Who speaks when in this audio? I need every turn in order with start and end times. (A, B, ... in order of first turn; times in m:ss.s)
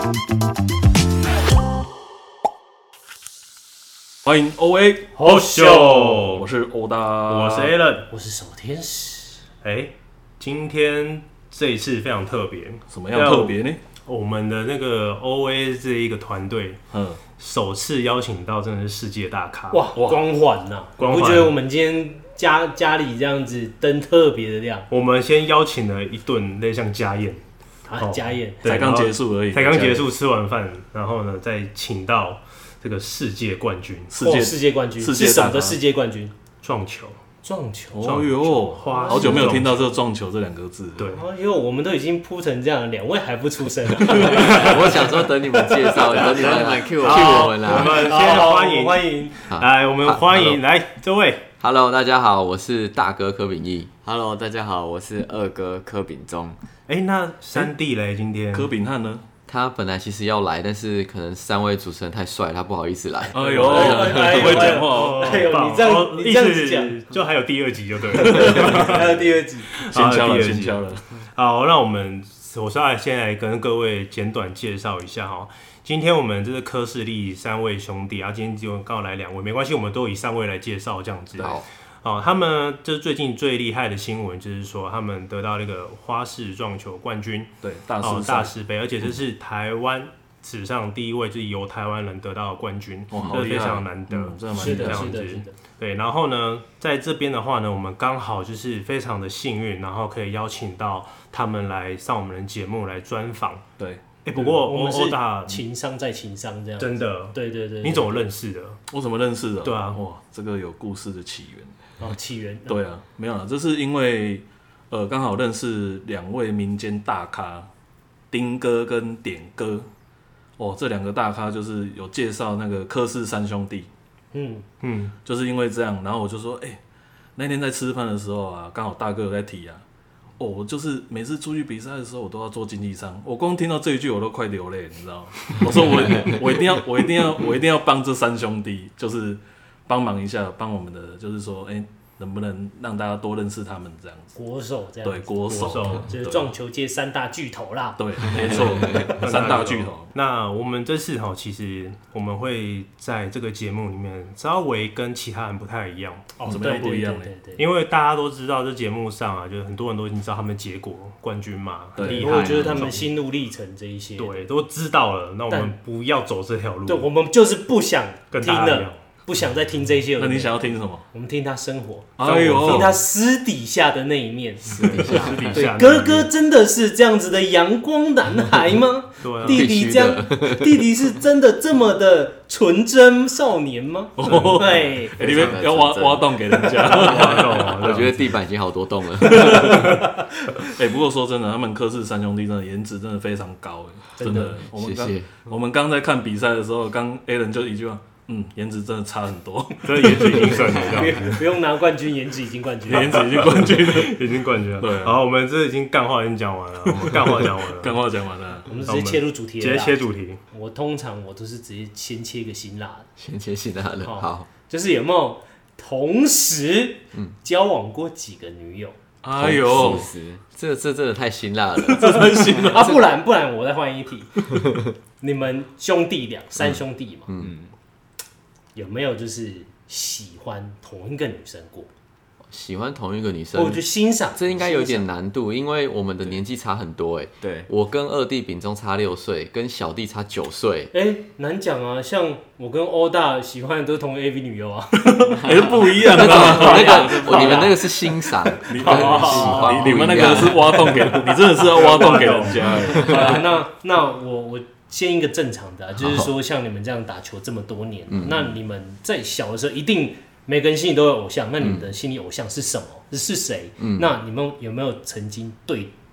0:04.2-0:05.1 A
0:05.1-0:06.3 B
0:05.2-0:06.4 C
0:06.3-0:07.8 A
0:07.3-0:08.1 C
0:08.1-0:09.4 B
0:09.6-0:16.8 C
0:12.9-0:13.8 A
0:16.9-0:17.2 A
0:17.4-0:19.8 C
0:19.7-0:24.9 B
0:21.0-0:21.5 C
0:24.9-0:27.4 C
0:27.8-0:28.9 B
0:28.0-0:34.1 C
0:28.6-0:30.1 A
0:34.1-0:35.8 A
0:34.2-0:36.3 B
0:36.6-0:37.2 C
0:37.4-0:38.1 B
0:37.9-0:41.1 A
0:38.0-0:39.9 C
0:38.8-0:39.7 B
0:41.0-0:41.2 C
0:41.1-0:46.6 B
0:44.3-0:48.1 D
0:46.1-0:47.5 E
0:47.0-0:51.4 C
0:47.7-0:49.4 B
0:49.5-0:50.6 D
0:51.6-0:53.9 D
0:54.0-0:56.6 E
0:56.9-0:58.7 C
0:58.5-0:59.2 A
0:59.5-1:04.0 D
1:03.3-1:05.5 A
1:03.3-1:07.0 B
1:03.7-1:09.3 C
1:08.2-1:09.0 A
1:08.2-1:09.7 B
1:09.8-1:43.6 C
1:09.9-1:11.0 A
1:21.3-1:21.7 D
1:27.6-1:28.5 A
1:33.1-1:35.2 A
1:34.5-1:35.6 B
1:44.2-1:45.6 C
1:44.3-1:48.2 B
1:46.8-1:48.8 C
1:48.9-1:51.7 A
1:49.6-1:50.0 C
1:52.0-1:52.8 B
1:52.7-1:57.7 A
1:58.3-1:59.9 A
2:00.6-2:03.9 A
2:04.3-2:04.6 B
2:04.8-2:05.1 C
2:05.2-2:06.8 A
2:07.4-2:09.8 A
2:10.4-2:24.4 A
2:24.4-2:29.2 B
2:25.0-2:26.5 A
2:25.5-2:26.1 C
2:28.0-2:30.1 A
2:29.1-2:36.6 C
2:36.4-2:37.3 A
2:36.5-2:37.6 B
2:37.6-2:43.1 C
2:42.0-2:43.0 A
2:42.0-2:44.4 B
2:42.2-2:42.6 E
2:44.2-2:47.1 C
2:45.5-2:45.7 B
2:46.8-3:05.2 B
2:48.3-2:49.0 C
2:50.2-2:51.0 A
2:52.2-2:53.0 A
2:52.2-2:53.0 C
2:54.6-2:56.3 C
2:55.0-2:55.4 E
2:59.2-2:59.6 C
2:59.4-3:00.8 D
3:04.2-3:08.0 A
3:04.3-3:04.6 C
3:05.2-3:06.4 E
3:06.8-3:08.3 C
3:07.6-3:09.8 D
3:09.2-3:10.0 A
3:09.4-3:10.0 C
3:09.6-3:10.5 B
3:10.6-3:20.7 A
3:14.2-3:14.6 B
3:14.7-3:15.3 D
3:19.8-3:21.4 C
3:20.3-3:23.3 B
3:22.9-3:25.2 A
3:22.9-3:28.0 C
3:27.0-3:28.7 A
3:28.6-3:33.1 B
3:28.8-3:30.4 C
3:33.2-3:34.5 D
3:34.0-3:39.0 B
3:39.2-3:40.1 A
3:39.4-3:43.0 D
3:39.7-3:40.4 E
3:41.9-3:43.0 A
3:42.6-3:44.5 B
3:44.5-3:44.8 D
3:45.2-3:47.3 B
3:46.6-3:47.5 D
3:47.4-3:47.7 E
3:48.8-3:51.9 B
3:52.5-4:00.9 D
3:53.5-3:55.1 B
3:57.4-3:57.7 E
4:00.9-4:07.9 B
4:05.2-4:07.6 A
4:06.1-4:10.6 D
4:08.6-4:13.4 A
4:08.8-4:09.8 C
4:08.8-4:10.0 B
4:10.7-4:13.4 C
4:12.0-4:25.9 B
4:16.0-4:16.3 D
4:18.1-4:18.6 D
4:21.6-4:21.9 D
4:23.8-4:24.1 D